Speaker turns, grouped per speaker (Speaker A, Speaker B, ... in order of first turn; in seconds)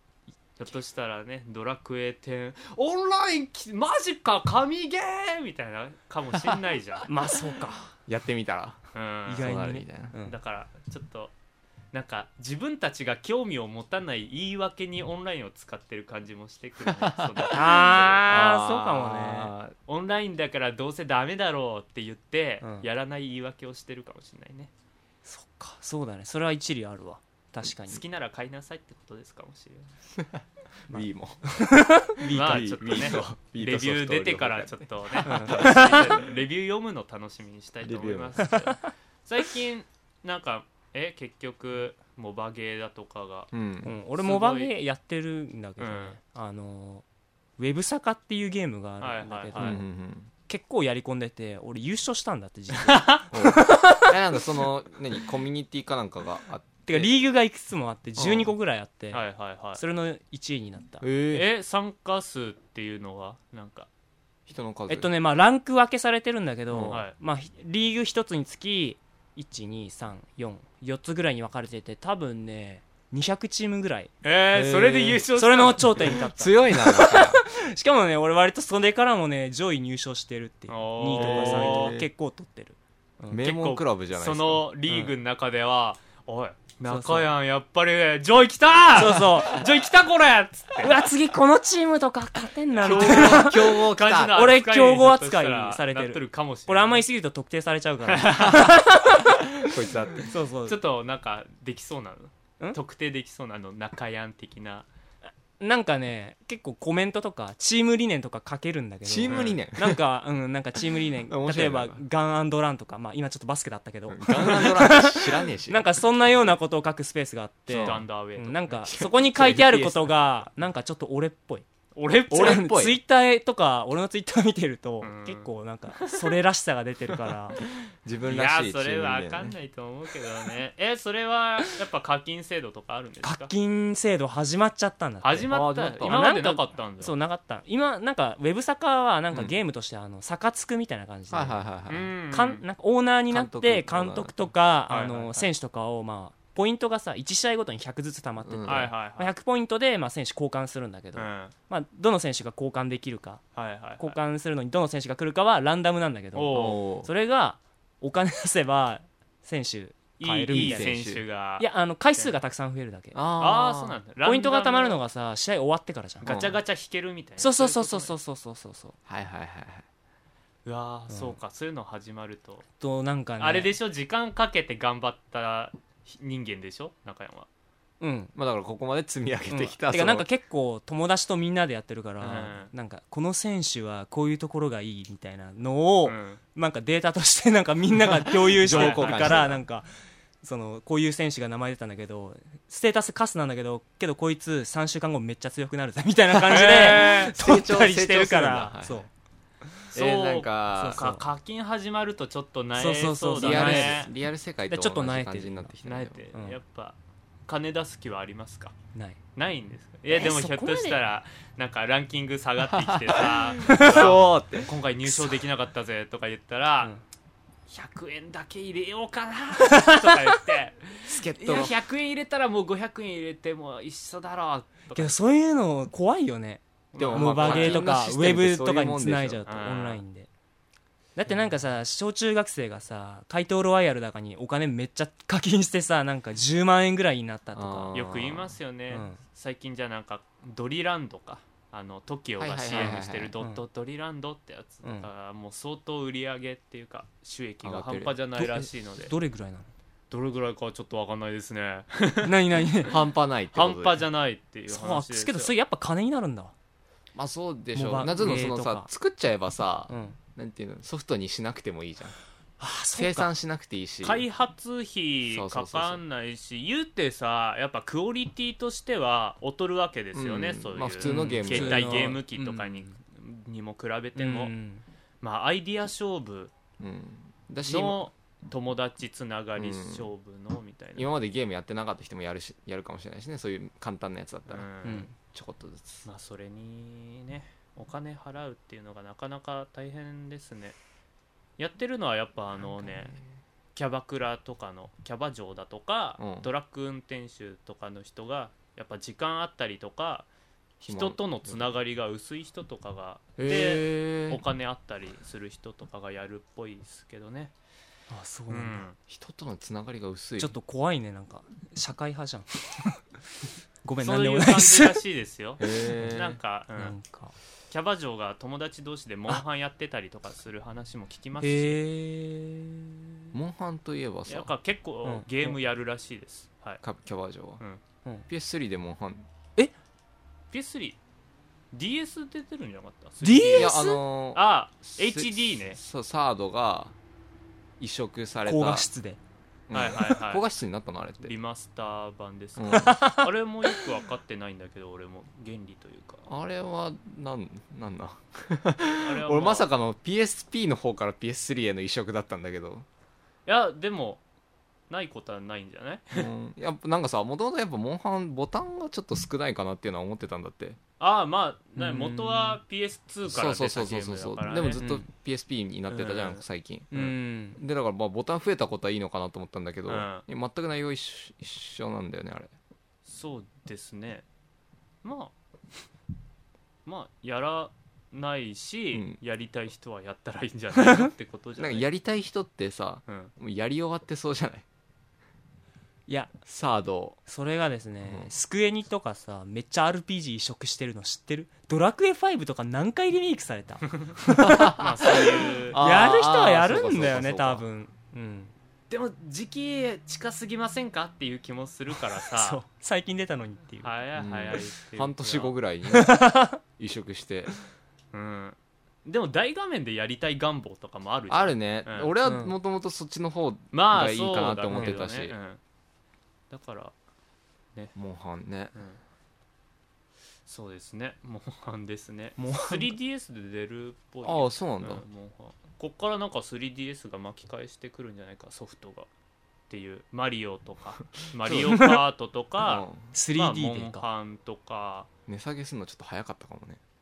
Speaker A: 0.6-7.1, 8.9-9.5, 10.2-11.3, 11.9-18.2, 19.9-24.7, 27.9-29.9, 32.2-43.5, 44.2-44.7, 45.8-46.2, 49.0-49.8, 52.7-53.2, 59.1-59.8, 61.3-63.9, 66.9-67.1, 74.2-76.2, 80.7-82.0, 83.4-91.0, 92.8-97.0, 98.1-98.7, 100.6-104.9, 109.3-109.6, 117.7-118.8, 122.0-122.7, 125.0-125.5, 126.0-126.3, 128.2-133.5, 135.2-137.1, 141.9-142.6, 144.9-145.5, 148.7-149.3, 151.1-151.5, 153.6-154.2, 156.3-156.8, 160.2-162.3, 163.4-165.0, 166.2-168.1, 170.6-172.6, 173.4-177.5, 182.2-182.7, 186.0-186.4, 188.7-189.4, 196.5-197.3, 199.9-204.1, 205.8-208.7, 209.3-216.9, 217.7-225.1, 226.9-227.9, 229.4-230.0, 237.9-249.1, 250.1-252.9, 253.5-255.5, 264.0-274.5, 275.2-276.5, 277.6-281.1, 284.5-285.1, 286.0-290.8, 291.6-293.1, 293.7-300.3, 300.8-307.5, 308.5-309.0, 314.0-316.9, 317.7-321.8, 324.3-326.8, 330.5-331.0, 331.7-335.8, 339.7-340.4, 341.2-346.2, 349.0-349.7, 353.4-354.2, 354.9-356.3, 361.0-364.8, 365.9-367.1, 369.9-370.2, 373.0-374.2, 375.0-375.3, 376.8-381.9, 383.1-383.3, 393.9-394.1, 394.7-395.8, 398.9-402.6, 403.8-405.5, 408.1-412.1, 413.7-415.6, 416.5-416.9, 418.7-419.0, 420.4-429.1, 429.7-435.1
Speaker B: 7.1-7.9, 9.3-10.3, 17.5-19.5, 25.2-28.0, 30.9-32.4, 35.2-36.2, 43.8-47.0, 47.6-49.8, 50.5-54.1, 56.9-59.2, 59.8-61.0, 64.9-74.1, 75.4-83.4, 86.9-87.3, 88.9-89.7, 90.8-99.7, 100.2-100.8, 105.6-121.6, 122.3-127.6, 133.2-141.6, 142.3-153.4, 154.0-160.9, 161.6-163.2, 164.2-166.3, 167.4-168.9, 171.1-171.3, 172.8-173.7, 178.0-178.3, 179.5-189.9, 190.4-199.1, 200.8-201.2, 202.8-204.1, 204.7-205.7, 210.1-211.0, 213.6-214.2, 219.7-220.1, 224.9-230.3, 231.2-238.0, 238.9-239.2, 242.7-243.6, 248.4-249.7, 252.2-252.9, 254.7-256.5, 257.7-258.9, 259.9-260.2, 262.6-263.3, 271.0-272.9, 274.1-274.8, 284.8-285.1, 308.1-308.8, 310.4-313.0, 313.8-315.0, 315.9-316.2, 316.8-317.3, 321.4-323.3, 325.0-325.6, 333.2-334.0, 338.4-339.2, 342.7-343.3, 361.8-362.6, 364.8-365.1, 366.9-367.6, 386.1-386.3, 387.3-394.8, 395.8-398.5, 402.2-403.9, 405.9-406.6, 412.2-412.5, 414.7-415.0, 422.4-422.9, 431.5-432.0, 433.1-434.0
Speaker C: 8.1-8.8, 9.4-10.1, 16.8-19.8, 30.1-36.3, 37.8-38.5, 43.5-43.9, 49.5-50.3, 53.3-57.1, 58.2-58.5, 61.0-61.5, 64.5-65.1, 66.7-67.0, 74.5-75.2, 76.0-77.4, 81.1-82.1, 83.3-84.7, 92.8-94.4, 99.6-100.3, 109.0-110.0, 111.3-112.0, 114.1-115.9, 117.7-118.0, 118.8-120.1, 122.3-123.0, 128.0-129.5, 135.5-136.3, 141.3-142.1, 143.3-144.4, 148.4-148.9, 156.5-157.1, 160.5-161.2, 163.1-164.0, 166.2-166.6, 169.1-169.8, 178.3-180.3, 188.2-189.6, 196.4-199.1, 199.9-201.0, 203.4-206.2, 212.7-214.7, 221.1-221.7, 226.9-229.4, 237.5-238.6, 242.4-243.3, 247.6-248.2, 252.9-254.0, 257.1-262.1, 262.9-264.2, 265.3-266.0, 270.1-272.1, 276.8-278.1, 279.6-280.1, 280.9-286.0, 292.5-293.3, 296.2-296.5, 300.8-301.8, 303.4-304.4, 309.1-310.5, 315.6-316.4, 323.3-324.5, 326.8-327.6, 328.3-329.3, 333.5-336.9, 337.8-338.9, 339.7-341.3, 342.6-343.0, 346.3-352.9, 356.1-360.8, 363.3-366.9, 367.6-372.5, 378.9-379.2, 381.6-384.6, 386.4-387.2, 388.0-388.3, 394.4-397.6, 404.1-407.5, 411.3-415.4, 417.9-418.7, 424.2-425.0, 432.6-433.1, 435.3-436.8